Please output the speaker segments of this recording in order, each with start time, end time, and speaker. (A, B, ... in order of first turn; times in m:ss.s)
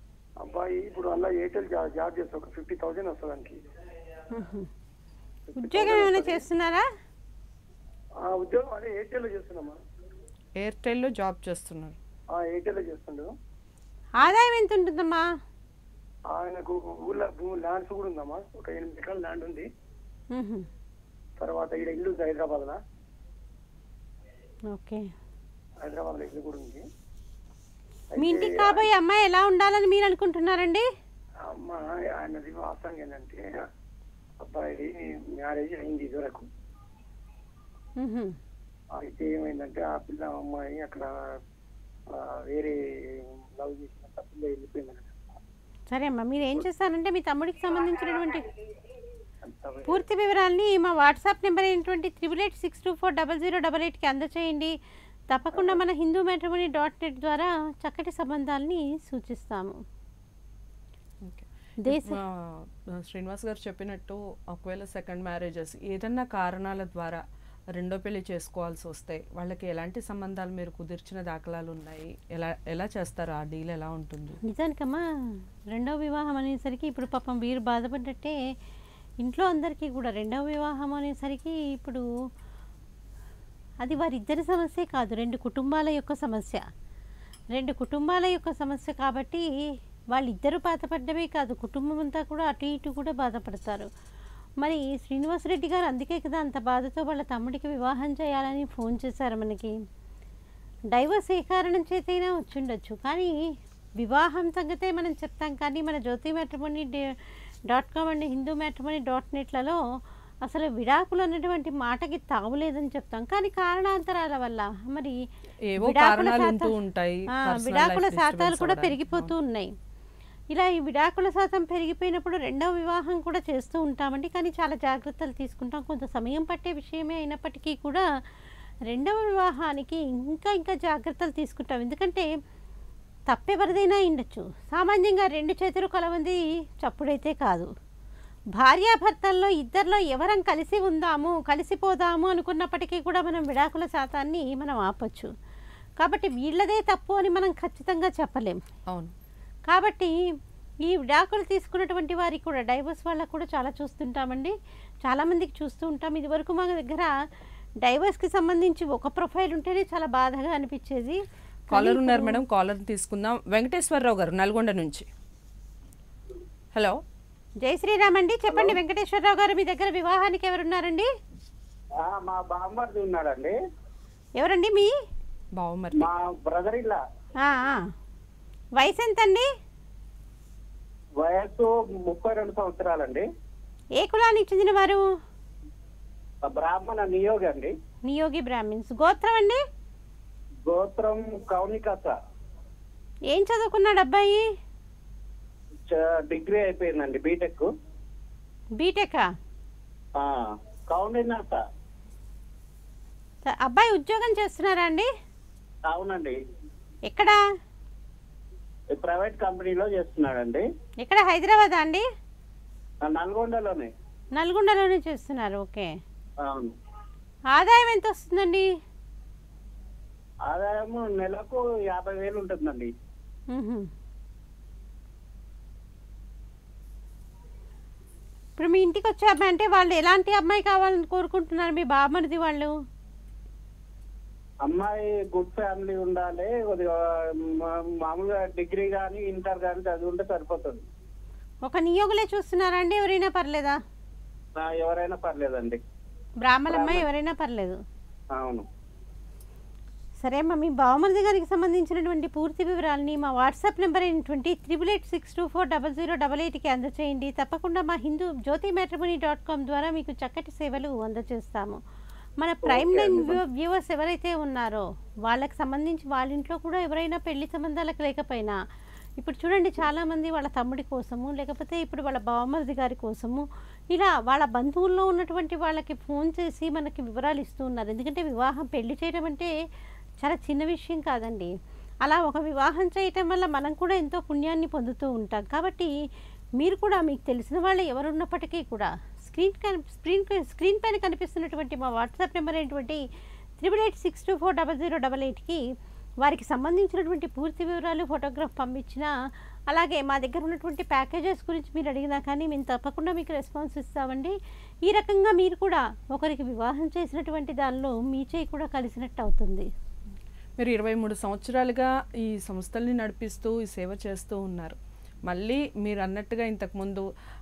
0:00.4-0:03.6 A
0:04.3-0:04.7 B
0:05.6-0:06.4 A
0:05.6-0:06.8 B
0:08.2-0:09.8 A
0:10.6-0:12.0 C
0:12.3-0:13.3 A
0:14.2-0:15.3 B
0:16.3-0:19.7 A
0:20.3-0:20.7 B
0:21.4-0:22.8 A
0:24.7-0:25.1 B
0:25.8-0:26.8 A
0:28.1-0:28.9 A
0:28.2-0:30.8 B
0:31.5-0:33.5 A
0:34.4-0:36.5 A
0:38.0-0:38.4 B
0:39.0-0:41.1 A
0:42.1-0:45.4 A
0:45.9-0:48.4 B
0:49.5-0:50.0 A
0:49.9-0:54.7 B
0:55.3-0:59.8 B
0:55.5-0:55.8 A
1:01.2-1:07.2 C
1:01.8-1:02.2 B
1:07.7-1:14.4 C
1:14.4-1:15.0 B
1:15.7-1:18.4 B
1:19.2-1:22.0 B
1:23.8-1:26.6 B
1:27.5-1:29.5 B
1:30.1-1:33.9 B
1:34.6-1:39.7 B
1:40.9-1:43.3 B
1:44.0-1:47.1 B
1:47.7-1:49.8 B
1:50.4-1:55.2 B
1:55.7-1:59.3 C
1:55.8-1:56.7 B
1:57.3-1:59.7 B
2:00.5-2:08.0 B
2:08.9-2:12.3 B
2:13.3-2:17.7 B
2:18.6-2:25.3 B
2:26.0-2:28.6 B
2:29.7-2:30.1 B
2:30.9-2:34.5 B
2:35.0-2:37.1 B
2:37.8-2:42.4 B
2:41.7-2:45.1 C
2:46.7-2:47.0 C
2:47.6-2:51.1 B
2:48.5-2:48.7 D
2:52.0-2:53.6 D
2:54.4-2:54.9 B
2:55.5-2:56.1 C
2:55.9-2:57.0 D
2:57.4-2:57.8 B
2:58.8-2:59.5 B
3:01.2-3:03.2 D
3:04.0-3:05.0 B
3:06.4-3:07.7 D
3:08.1-3:09.6 B
3:10.6-3:12.1 D
3:13.3-3:14.4 B
3:15.9-3:17.7 D
3:18.8-3:19.3 B
3:20.2-3:21.6 D
3:23.4-3:25.1 B
3:25.9-3:26.4 D
3:27.1-3:27.4 B
3:28.9-3:30.6 D
3:31.0-3:32.0 B
3:33.0-3:33.9 D
3:34.4-3:35.9 B
3:36.4-3:36.7 D
3:37.5-3:38.7 B
3:40.5-3:42.9 D
3:43.5-3:43.9 B
3:48.6-3:52.7 B
3:54.6-4:00.8 D
4:01.6-4:03.8 B
4:04.6-4:05.8 D
4:06.4-4:07.8 B
4:06.7-4:07.0 D
4:08.3-4:08.6 D
4:10.2-4:21.8 B
4:22.4-4:28.6 B
4:22.6-4:23.4 D
4:29.2-4:39.5 B
4:40.2-4:41.5 B
4:42.0-4:45.9 B
4:46.6-4:53.0 B
4:53.6-4:55.6 B
4:56.2-4:59.1 B
4:59.7-5:04.3 B
5:04.8-5:09.7 B
5:10.6-5:14.8 C
5:15.3-5:17.1 C